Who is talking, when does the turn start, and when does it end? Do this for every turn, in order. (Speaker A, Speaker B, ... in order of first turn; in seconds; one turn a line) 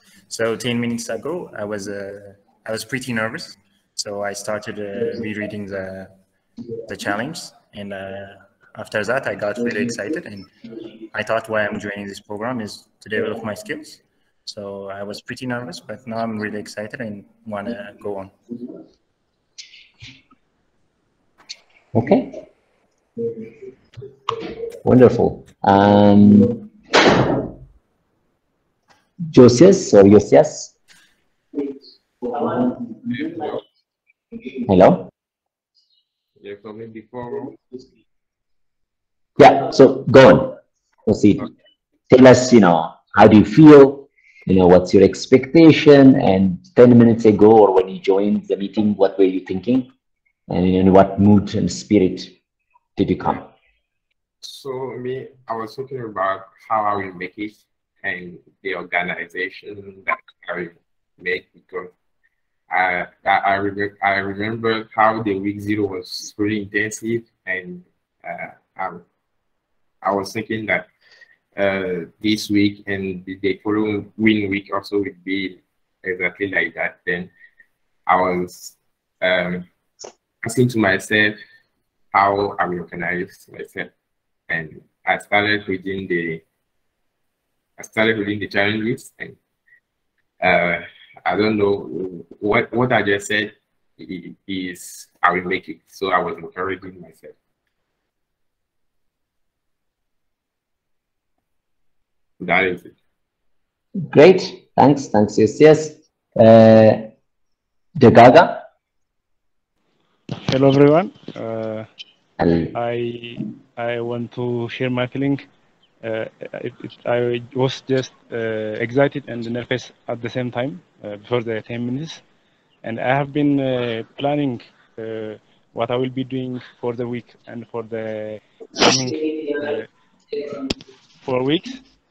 Speaker A: 0.3-6.1
Speaker A: 6.9-10.5
Speaker A: 11.1-18.3
Speaker B: 21.9-22.3
Speaker B: 24.8-26.6
Speaker B: 29.3-30.7
Speaker C: 33.1-33.6
Speaker B: 34.7-35.1
Speaker C: 36.4-37.6
Speaker B: 39.4-40.5
Speaker B: 41.1-41.5
Speaker B: 42.1-49.9
Speaker B: 50.5-52.3
Speaker B: 53.0-53.5
Speaker C: 54.4-61.9
Speaker C: 62.7-69.0
Speaker C: 70.0-70.9
Speaker C: 71.5-77.3
Speaker C: 78.1-79.7
Speaker C: 80.4-81.4
Speaker C: 82.1-83.9
Speaker C: 84.5-86.4
Speaker C: 87.8-89.4
Speaker C: 90.4-97.3
Speaker C: 102.4-102.9
Speaker B: 104.1-107.1
Speaker B: 108.0-108.7
Speaker D: 110.4-111.9
Speaker B: 112.4-112.7
Speaker D: 112.7-115.4
Speaker D: 116.0-122.2
Speaker D: 122.8-129.9
Speaker D: 131.2-131.8